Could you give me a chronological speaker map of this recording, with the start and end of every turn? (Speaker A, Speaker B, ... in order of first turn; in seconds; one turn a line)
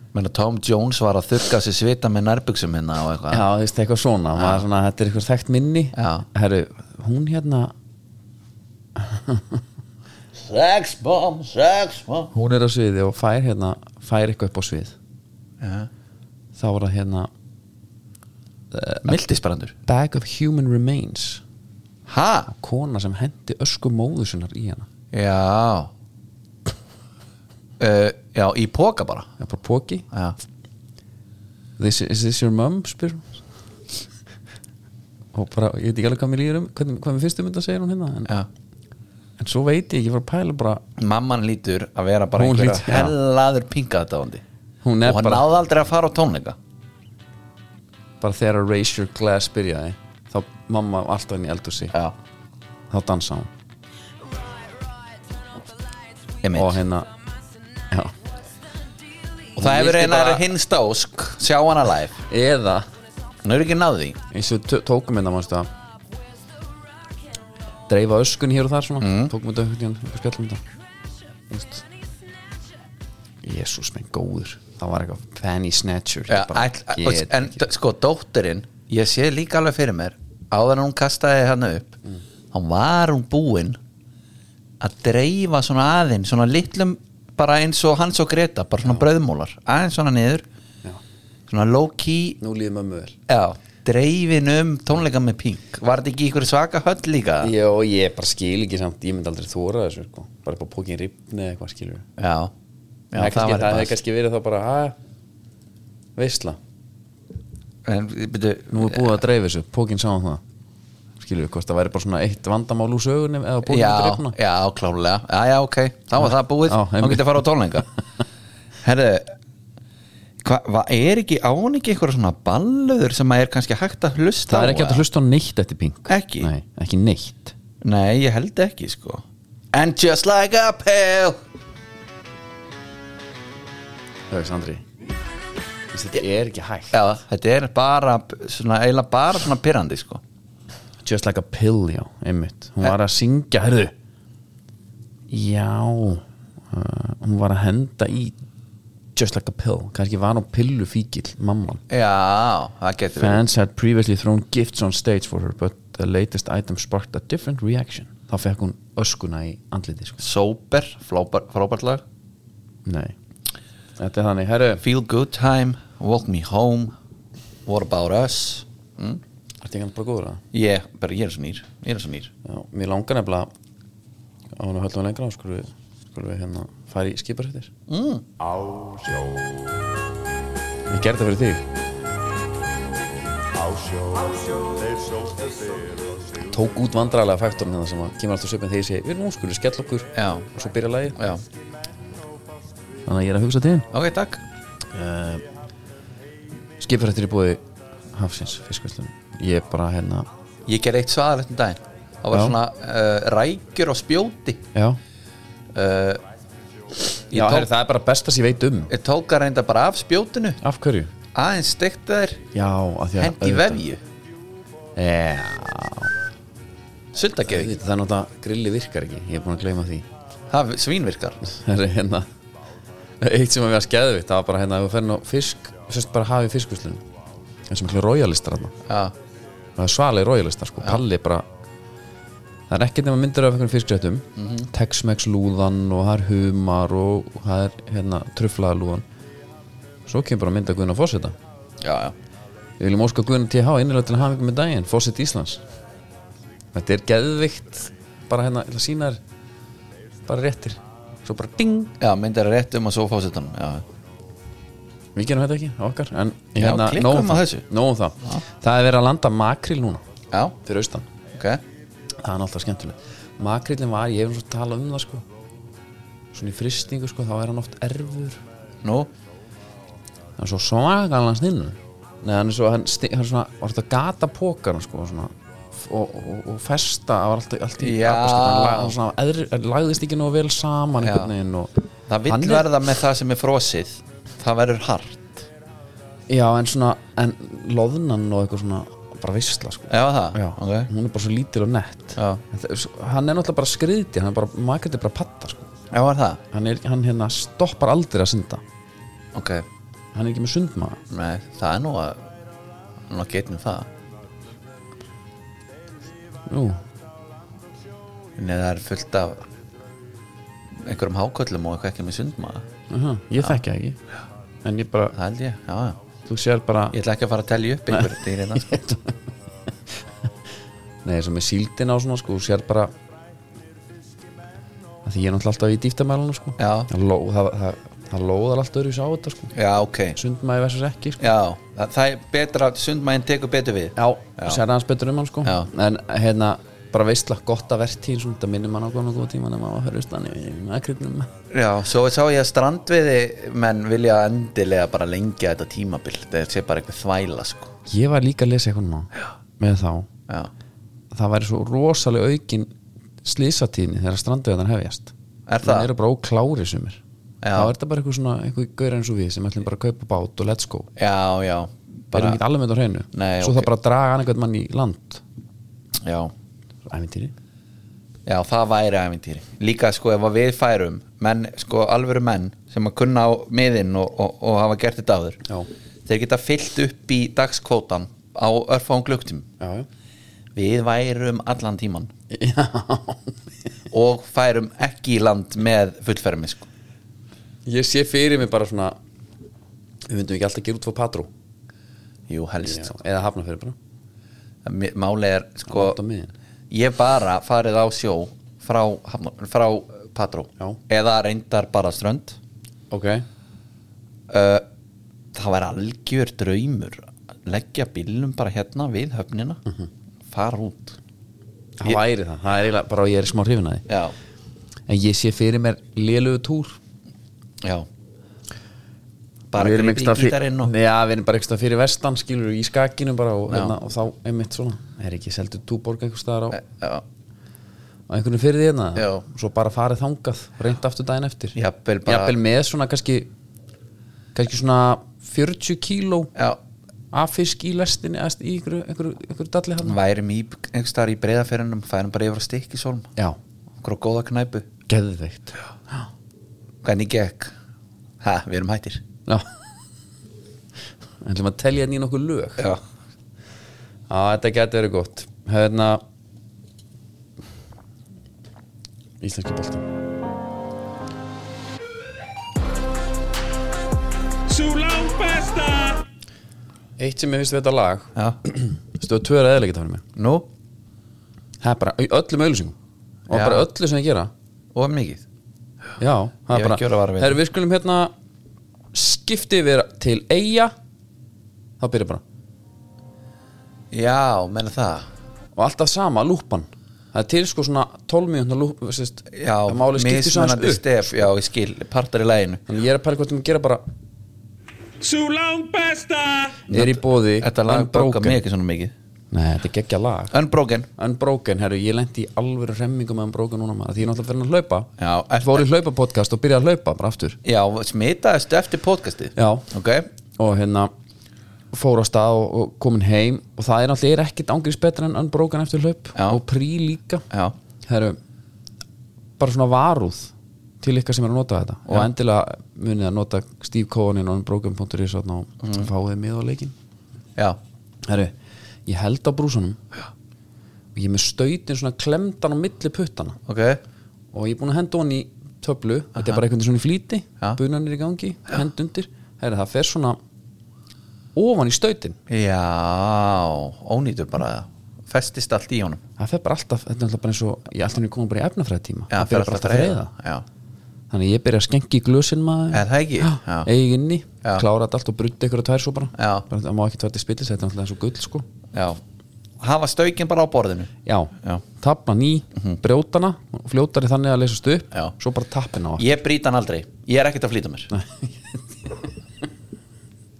Speaker A: 0.1-3.5
Speaker B: 3.3-7.7
Speaker A: 4.4-4.6
Speaker A: 6.0-6.2
Speaker B: 9.0-9.6
Speaker A: 10.3-12.3
Speaker B: 12.3-14.9
Speaker A: 15.6-15.9
Speaker B: 16.6-17.3
Speaker B: 18.7-19.2
Speaker A: 19.1-19.8
Speaker B: 19.9-21.4
Speaker A: 22.1-22.5
Speaker B: 22.5-24.9
Speaker A: 25.1-25.9
Speaker A: 27.8-29.3
Speaker B: 29.4-30.1
Speaker A: 30.1-30.4
Speaker B: 31.8-33.4
Speaker B: 35.3-38.3
Speaker B: 39.4-40.8
Speaker A: 41.0-44.4
Speaker B: 42.4-43.1
Speaker B: 44.8-45.5
Speaker A: 45.0-46.6
Speaker B: 48.2-52.0
Speaker B: 52.9-53.5
Speaker A: 56.4-56.8
Speaker B: 56.5-57.1
Speaker B: 59.5-60.5
Speaker A: 59.6-62.2
Speaker B: 62.3-62.9
Speaker A: 63.4-64.2
Speaker B: 64.3-65.7
Speaker B: 67.9-70.6
Speaker A: 69.0-69.3
Speaker B: 71.5-71.8
Speaker B: 73.4-77.7
Speaker A: 76.3-82.0
Speaker A: 82.5-83.8
Speaker A: 84.8-90.5
Speaker A: 91.5-92.4
Speaker B: 92.4-93.2
Speaker A: 93.3-97.5
Speaker B: 97.4-102.0
Speaker A: 102.2-102.5
Speaker A: 103.1-104.0
Speaker B: 103.2-105.0
Speaker B: 106.2-106.6
Speaker A: 107.8-109.2
Speaker B: 108.7-110.4
Speaker B: 111.2-114.4
Speaker A: 113.7-117.9
Speaker B: 116.7-117.4
Speaker A: 118.8-119.4
Speaker A: 120.4-125.0
Speaker B: 124.5-127.5
Speaker A: 126.1-126.5
Speaker A: 127.8-131.4
Speaker B: 134.3-134.8
Speaker B: 135.9-137.0
Speaker A: 136.9-140.2
Speaker B: 141.0-143.9
Speaker B: 145.3-148.4
Speaker B: 149.2-151.8
Speaker A: 151.9-153.4
Speaker B: 153.2-160.2
Speaker A: 160.2-162.0
Speaker B: 162.9-163.1
Speaker B: 164.0-164.8
Speaker A: 164.8-166.9
Speaker A: 167.7-169.2
Speaker B: 169.6-170.4
Speaker A: 170.5-172.3
Speaker B: 172.4-173.5
Speaker B: 174.6-177.7
Speaker A: 177.9-178.3
Speaker B: 180.9-181.7
Speaker B: 186.4-191.2
Speaker A: 190.2-190.5
Speaker A: 191.2-191.4
Speaker B: 193.1-193.9
Speaker A: 193.9-194.4
Speaker B: 194.9-195.4
Speaker B: 196.8-197.6
Speaker B: 198.1-200.3
Speaker A: 200.7-204.7
Speaker B: 204.7-205.0
Speaker A: 205.7-206.2
Speaker A: 207.3-207.7
Speaker B: 207.3-208.9
Speaker A: 208.9-210.6
Speaker B: 210.6-211.1
Speaker A: 211.3-212.4
Speaker B: 212.5-213.8
Speaker A: 213.2-214.0
Speaker B: 215.0-216.1
Speaker A: 217.1-217.8
Speaker B: 217.4-220.1
Speaker A: 220.5-221.4
Speaker B: 221.4-222.3
Speaker B: 223.2-227.0
Speaker B: 227.7-228.8
Speaker A: 228.9-229.2
Speaker B: 229.8-231.5
Speaker B: 232.7-239.1
Speaker A: 234.4-234.7
Speaker B: 240.1-241.3
Speaker A: 241.8-242.2
Speaker B: 242.8-245.6
Speaker B: 246.7-249.2
Speaker B: 250.3-251.9
Speaker A: 252.0-253.9
Speaker B: 255.2-260.0
Speaker A: 256.6-257.6
Speaker A: 260.3-260.6
Speaker B: 260.6-261.1
Speaker A: 261.3-261.6
Speaker B: 262.2-265.2
Speaker B: 266.3-268.4
Speaker A: 268.8-269.1
Speaker B: 270.4-282.7
Speaker A: 277.8-279.0
Speaker A: 281.0-281.3
Speaker A: 282.1-285.5
Speaker B: 286.3-295.7
Speaker A: 289.9-290.9
Speaker A: 292.2-292.4
Speaker A: 295.9-296.4
Speaker B: 296.5-298.6
Speaker A: 299.4-299.7
Speaker B: 300.1-301.0
Speaker A: 301.1-302.3
Speaker A: 303.1-303.9
Speaker B: 306.5-306.8
Speaker A: 308.4-309.5
Speaker A: 310.8-312.6
Speaker B: 312.9-314.0
Speaker B: 314.6-315.2
Speaker A: 315.1-316.0
Speaker B: 316.3-317.0
Speaker A: 316.9-318.8
Speaker B: 317.9-319.1
Speaker B: 321.1-322.9
Speaker B: 325.1-329.5
Speaker A: 326.6-326.9
Speaker A: 329.5-330.2
Speaker B: 330.1-331.2
Speaker A: 331.2-334.6
Speaker B: 334.0-341.3
Speaker A: 341.5-347.7
Speaker B: 347.9-350.1
Speaker B: 351.1-352.7
Speaker B: 353.2-357.0
Speaker A: 355.5-355.9
Speaker A: 357.4-357.7
Speaker B: 357.5-360.9
Speaker A: 361.0-362.4
Speaker B: 362.1-365.2
Speaker A: 363.1-363.7
Speaker A: 366.0-366.3
Speaker B: 366.9-367.3
Speaker A: 368.3-375.4
Speaker A: 376.1-379.5
Speaker B: 379.6-379.9
Speaker A: 380.6-382.1
Speaker B: 382.3-383.4
Speaker A: 383.9-386.7
Speaker B: 387.7-389.0
Speaker B: 390.1-391.3
Speaker A: 392.3-393.0
Speaker B: 392.6-393.8
Speaker A: 394.6-396.0
Speaker B: 395.7-396.3
Speaker A: 396.7-402.4
Speaker B: 402.9-403.3
Speaker A: 404.3-404.7
Speaker A: 405.3-409.6
Speaker A: 410.3-411.0
Speaker B: 411.8-413.9
Speaker A: 413.9-414.1
Speaker B: 414.9-416.8
Speaker A: 417.6-417.9
Speaker A: 419.5-420.7
Speaker B: 419.6-426.6
Speaker A: 423.5-423.7
Speaker A: 426.5-427.0
Speaker B: 428.1-433.3
Speaker A: 429.0-429.2
Speaker A: 431.6-432.4
Speaker B: 434.4-436.3
Speaker B: 437.1-440.0
Speaker A: 439.8-443.1
Speaker A: 443.8-444.7
Speaker B: 444.9-446.1
Speaker A: 446.8-447.5
Speaker A: 448.2-449.0
Speaker B: 451.2-452.7
Speaker B: 454.1-456.0
Speaker B: 459.2-459.9
Speaker C: 464.5-466.0
Speaker B: 467.0-470.0
Speaker A: 470.2-470.5
Speaker B: 471.6-472.8
Speaker B: 473.3-474.3
Speaker A: 473.3-473.7
Speaker A: 474.7-475.2
Speaker B: 476.0-478.1
Speaker A: 476.5-477.4
Speaker B: 478.9-480.7
Speaker B: 481.8-482.2
Speaker A: 483.9-485.1
Speaker B: 485.6-490.9
Speaker A: 489.3-492.6
Speaker B: 492.7-493.8
Speaker C: 495.0-496.6
Speaker A: 496.7-498.9
Speaker B: 496.7-498.4
Speaker B: 499.3-500.3
Speaker A: 500.3-500.9
Speaker B: 501.0-507.4
Speaker A: 505.0-505.6
Speaker A: 507.4-510.1
Speaker B: 509.4-509.7
Speaker B: 510.4-510.9
Speaker B: 511.7-517.2
Speaker A: 516.1-516.4
Speaker A: 517.3-517.5
Speaker B: 517.9-518.2
Speaker B: 519.4-526.7
Speaker B: 528.0-528.4
Speaker B: 528.9-529.8
Speaker B: 531.0-533.4
Speaker A: 533.5-533.8
Speaker B: 534.3-540.2
Speaker B: 541.4-542.2
Speaker A: 542.3-546.0
Speaker B: 546.2-550.1
Speaker A: 549.1-550.5
Speaker B: 551.1-558.5
Speaker A: 552.7-553.7
Speaker A: 556.2-556.5
Speaker A: 558.7-559.0
Speaker A: 559.6-561.6
Speaker B: 561.0-566.1
Speaker A: 566.0-567.9
Speaker B: 567.9-569.1